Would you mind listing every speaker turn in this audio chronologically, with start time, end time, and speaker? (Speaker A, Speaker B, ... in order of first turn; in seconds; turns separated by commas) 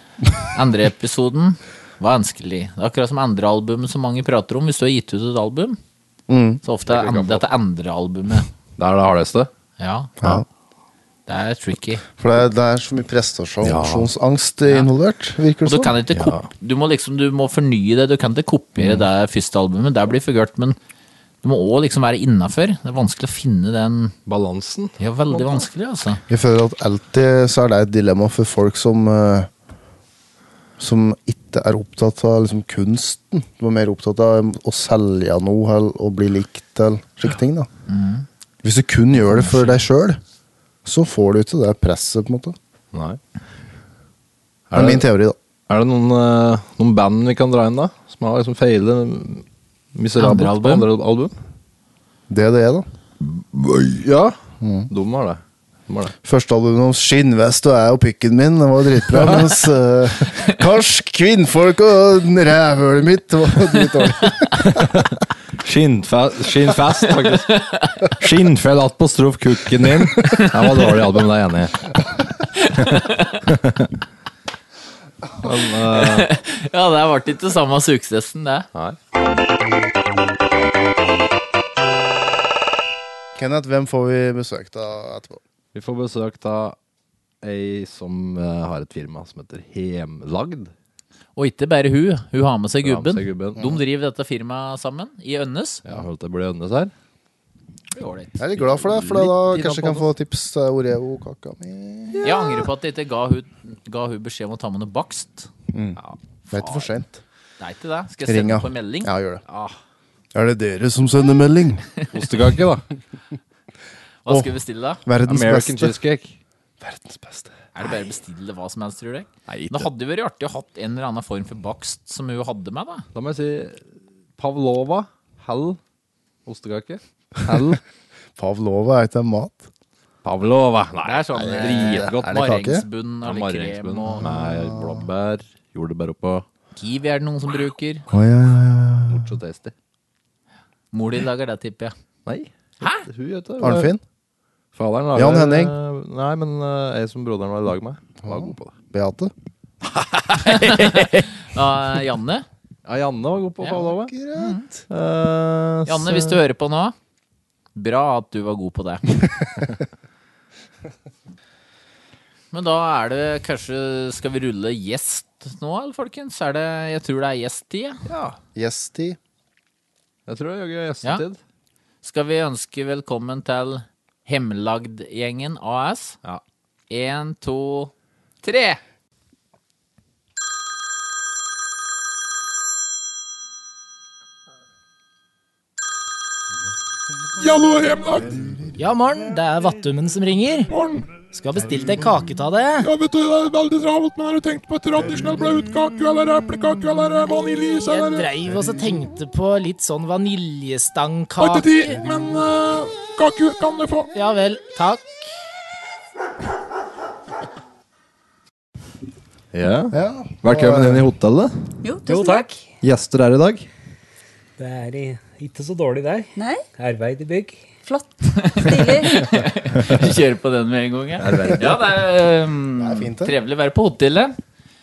Speaker A: 0.5-5.8, Speaker B: 6.3-6.6, Speaker A: 6.6-8.5, Speaker C: 6.8-7.5, Speaker C: 8.8-9.5, Speaker A: 9.8-10.3, Speaker A: 11.3-12.0, Speaker B: 12.2-15.9, Speaker C: 13.6-14.1, Speaker A: 15.6-20.8, Speaker C: 16.1-16.5, Speaker C: 18.8-19.0, Speaker A: 21.4-24.1, Speaker C: 24.3-25.7, Speaker A: 25.0-26.2, Speaker B: 26.3-29.5, Speaker B: 30.8-37.7, Speaker A: 37.9-38.2, Speaker B: 38.6-40.2, Speaker B: 40.8-42.6, Speaker C: 42.9-43.2, Speaker C: 44.7-45.1, Speaker B: 44.7-45.4, Speaker C: 45.7-51.4, Speaker A: 50.1-50.9, Speaker B: 52.3-52.9, Speaker C: 53.3-54.4, Speaker B: 54.6-54.9, Speaker C: 54.9-56.1, Speaker B: 56.2-64.7, Speaker C: 59.2-59.5, Speaker C: 64.8-65.0, Speaker C: 65.6-67.6, Speaker A: 67.2-68.1, Speaker C: 68.2-71.8, Speaker A: 70.3-70.8, Speaker A: 72.5-73.3, Speaker C: 72.8-74.0, Speaker C: 75.4-76.3, Speaker A: 75.9-78.7, Speaker B: 83.3-85.4, Speaker C: 85.7-86.8, Speaker C: 87.4-90.7, Speaker A: 91.3-95.8, Speaker C: 92.8-93.7, Speaker C: 95.8-96.9, Speaker A: 97.9-100.1, Speaker B: 98.4-102.3, Speaker A: 102.2-105.5, Speaker B: 105.7-106.0, Speaker A: 106.5-106.9, Speaker B: 106.5-107.2, Speaker A: 107.6-109.8, Speaker B: 108.2-109.4, Speaker B: 110.3-111.9, Speaker C: 112.1-112.8, Speaker A: 114.2-115.0, Speaker B: 115.0-115.9, Speaker C: 115.2-116.3, Speaker B: 116.8-117.5, Speaker A: 117.7-123.1, Speaker C: 119.5-119.9, Speaker C: 123.1-125.8, Speaker C: 126.4-127.8, Speaker B: 128.3-129.7, Speaker C: 130.2-132.4, Speaker A: 131.0-134.2, Speaker B: 131.4-132.8, Speaker C: 133.2-136.4, Speaker B: 134.2-135.1, Speaker A: 136.8-138.0, Speaker B: 138.1-139.3, Speaker C: 139.1-139.7, Speaker A: 140.9-141.9, Speaker C: 142.2-143.9, Speaker B: 143.6-144.0, Speaker C: 144.7-148.8, Speaker B: 145.1-145.7, Speaker B: 148.2-149.3, Speaker C: 149.8-151.3, Speaker A: 150.4-152.4, Speaker C: 152.8-154.1, Speaker A: 153.6-154.7, Speaker B: 154.1-154.8, Speaker C: 154.9-156.4, Speaker A: 155.8-156.9, Speaker A: 157.7-159.2, Speaker A: 162.5-168.0, Speaker C: 168.1-168.4, Speaker B: 168.5-169.2, Speaker C: 170.3-171.4, Speaker A: 172.0-176.2, Speaker A: 176.9-177.9, Speaker A: 178.4-178.8, Speaker D: 187.4-188.3, Speaker B: 188.2-188.8, Speaker E: 188.8-190.7, Speaker D: 190.7-191.1, Speaker E: 191.3-192.9, Speaker B: 191.6-192.0, Speaker D: 192.8-198.3, Speaker E: 197.7-202.0, Speaker D: 201.4-204.1, Speaker E: 204.1-205.2, Speaker C: 209.5-211.5, Speaker B: 209.9-211.0, Speaker F: 211.8-212.5, Speaker G: 212.1-212.5, Speaker C: 212.8-213.7, Speaker G: 214.6-217.6, Speaker F: 216.4-216.6, Speaker F: 217.8-219.3, Speaker A: 218.4-224.3, Speaker C: 221.2-221.7, Speaker B: 222.8-223.3